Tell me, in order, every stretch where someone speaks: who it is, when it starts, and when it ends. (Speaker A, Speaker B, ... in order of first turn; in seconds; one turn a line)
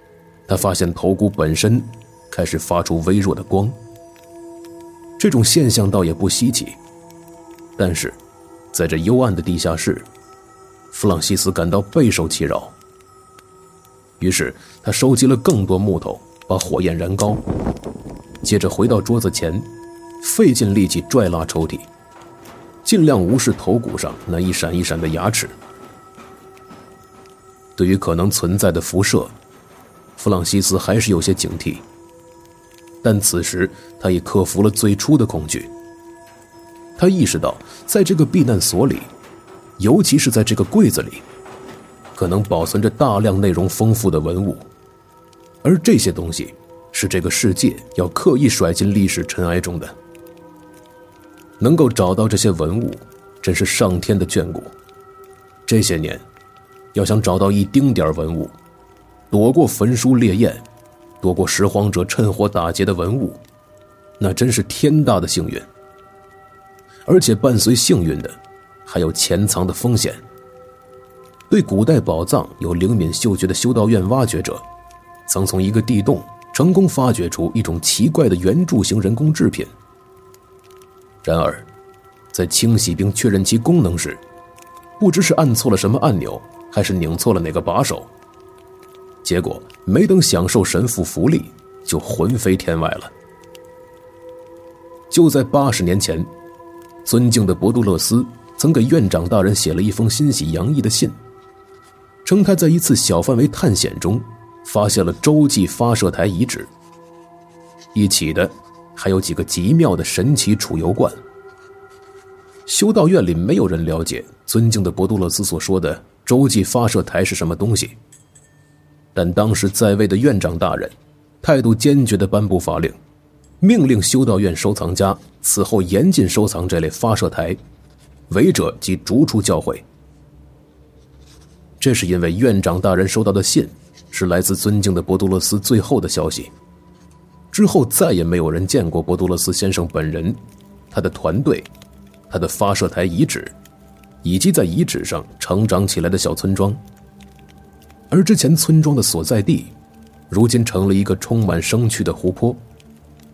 Speaker A: 0.5-3.8
Speaker A: 5.2-6.8
Speaker A: 7.8-8.2
Speaker A: 8.7-10.1
Speaker A: 10.9-12.7
Speaker A: 14.2-17.4
Speaker A: 18.4-19.6
Speaker A: 20.2-21.9
Speaker A: 22.8-25.5
Speaker A: 27.8-29.3
Speaker A: 30.2-31.8
Speaker A: 33.0-35.7
Speaker A: 37.0-39.1
Speaker A: 39.8-41.2
Speaker A: 42.1-44.6
Speaker A: 45.6-49.9
Speaker A: 51.6-54.7
Speaker A: 55.7-56.2
Speaker A: 56.9-58.5
Speaker A: 59.3-60.6
Speaker A: 61.2-63.4
Speaker A: 64.2-65.7
Speaker A: 67.0-70.2
Speaker A: 71.5-74.6
Speaker A: 75.3-79.7
Speaker A: 81.2-81.6
Speaker A: 82.3-84.2
Speaker A: 85.0-88.1
Speaker A: 89.2-93.1
Speaker A: 95.1-96.3
Speaker A: 97.0-101.2
Speaker A: 102.2-106.7
Speaker A: 107.9-111.2
Speaker A: 112.7-118.0
Speaker A: 119.1-123.0
Speaker A: 123.6-127.6
Speaker A: 128.3-129.8
Speaker A: 131.8-136.5
Speaker A: 137.5-140.4
Speaker A: 140.9-141.7
Speaker A: 142.3-143.5
Speaker A: 144.2-146.8
Speaker A: 148.1-149.7
Speaker A: 150.3-152.6